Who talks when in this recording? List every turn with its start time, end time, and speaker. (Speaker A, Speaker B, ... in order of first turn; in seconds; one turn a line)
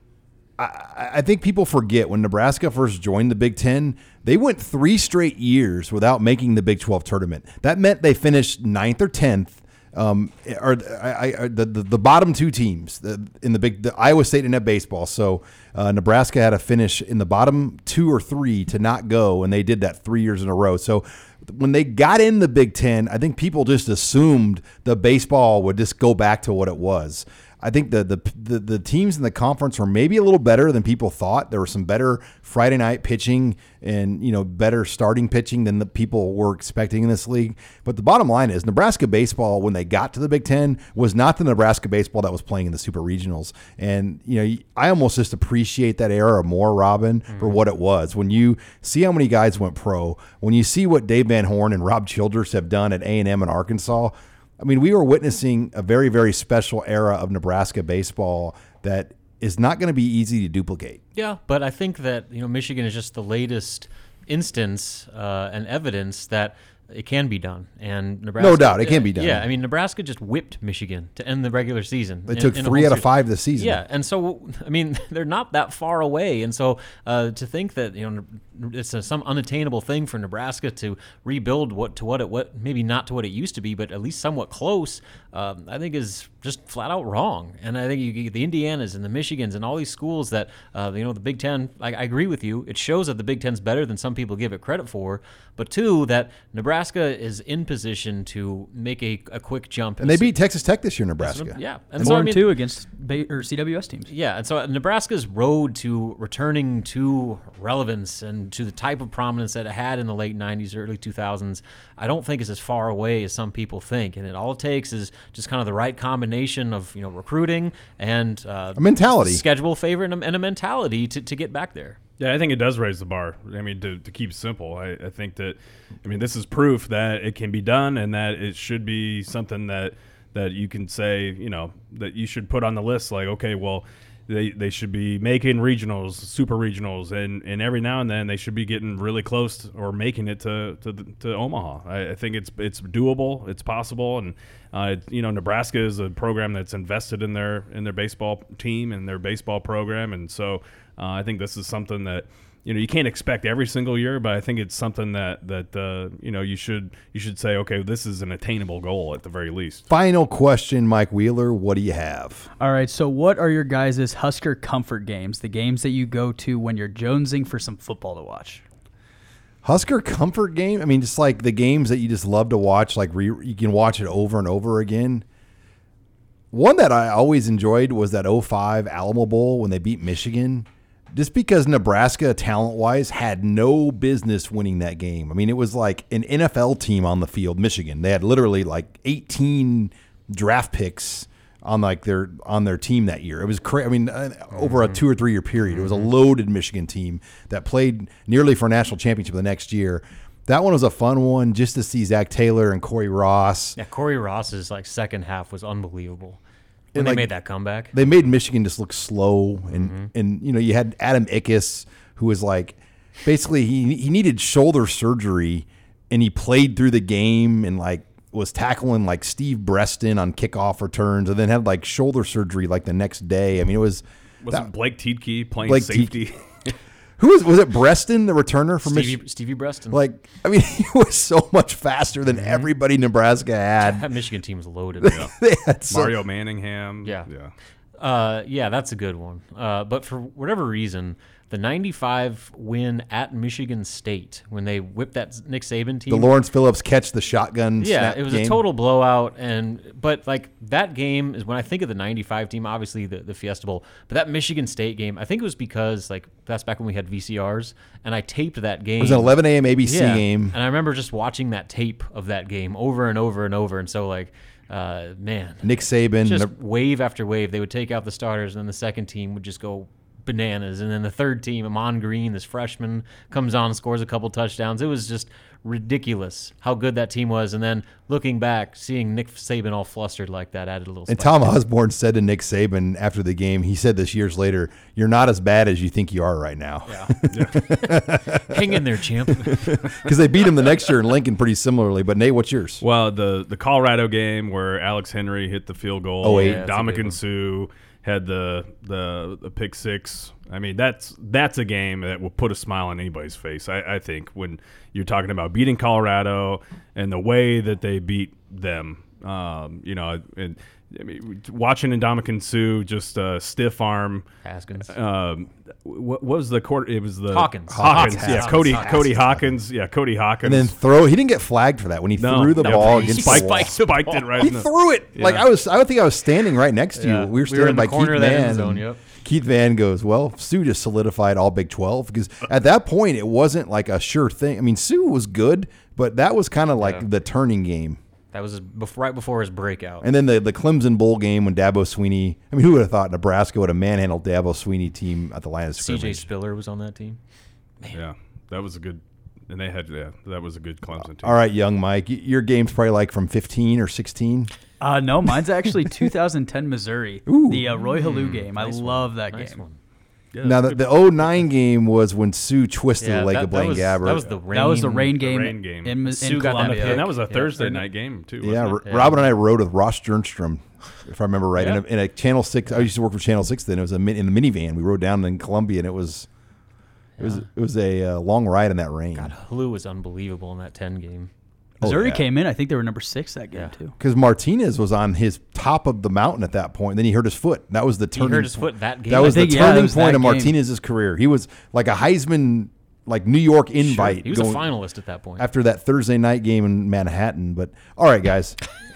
Speaker A: 0.6-61.0
Speaker B: 47.3-47.6
Speaker B: 61.1-100.3
Speaker A: 68.4-69.5
Speaker A: 72.3-73.8
Speaker A: 100.0-102.2
Speaker B: 101.2-102.5
Speaker C: 102.0-104.1
Speaker B: 104.1-122.0
Speaker A: 118.8-119.4
Speaker D: 122.2-159.8
Speaker A: 159.9-162.5
Speaker C: 162.6-168.6
Speaker A: 169.6-175.2
Speaker A: 176.5-203.8
Speaker B: 194.5-195.0
Speaker B: 195.7-196.1
Speaker B: 203.8-206.4
Speaker B: 206.9-207.9
Speaker A: 206.9-207.4
Speaker A: 207.9-224.7
Speaker B: 209.7-210.1
Speaker D: 224.4-226.4
Speaker A: 225.6-226.2
Speaker A: 227.2-229.2
Speaker B: 228.8-230.0
Speaker A: 229.9-234.1
Speaker B: 232.3-232.7
Speaker B: 233.8-235.2
Speaker A: 235.0-236.2
Speaker D: 235.9-237.5
Speaker B: 238.0-246.3
Speaker A: 246.1-248.6
Speaker B: 247.8-281.6
Speaker A: 259.0-260.6
Speaker A: 265.6-266.5
Speaker A: 281.1-288.4
Speaker B: 286.9-287.1
Speaker D: 287.3-287.6
Speaker B: 287.9-289.9
Speaker A: 289.4-292.8
Speaker D: 292.8-314.2
Speaker A: 296.2-296.6
Speaker B: 296.3-297.2
Speaker B: 314.4-314.9
Speaker D: 314.9-320.7
Speaker B: 317.3-319.1
Speaker A: 317.7-319.5
Speaker A: 320.4-323.7
Speaker D: 322.2-325.4
Speaker B: 322.6-324.5
Speaker A: 324.4-338.0
Speaker B: 326.9-329.1
Speaker B: 336.8-337.1
Speaker B: 338.3-340.0
Speaker A: 340.0-346.3
Speaker B: 345.8-347.2
Speaker D: 347.9-351.4
Speaker A: 351.2-354.5
Speaker C: 354.8-359.6
Speaker A: 357.2-357.7
Speaker B: 357.9-359.8
Speaker D: 360.3-361.4
Speaker A: 360.4-364.3
Speaker B: 363.0-365.2
Speaker C: 364.5-367.1
Speaker D: 365.2-368.8
Speaker B: 366.1-367.8
Speaker A: 368.4-376.3
Speaker B: 368.8-369.3
Speaker B: 371.6-371.8
Speaker B: 377.2-377.4
Speaker A: 377.2-379.3
Speaker B: 379.1-381.3
Speaker A: 381.8-382.2
Speaker C: 381.8-383.9
Speaker A: 384.0-394.7
Speaker B: 388.1-389.6
Speaker C: 389.2-390.6
Speaker B: 393.8-395.5
Speaker A: 395.4-398.6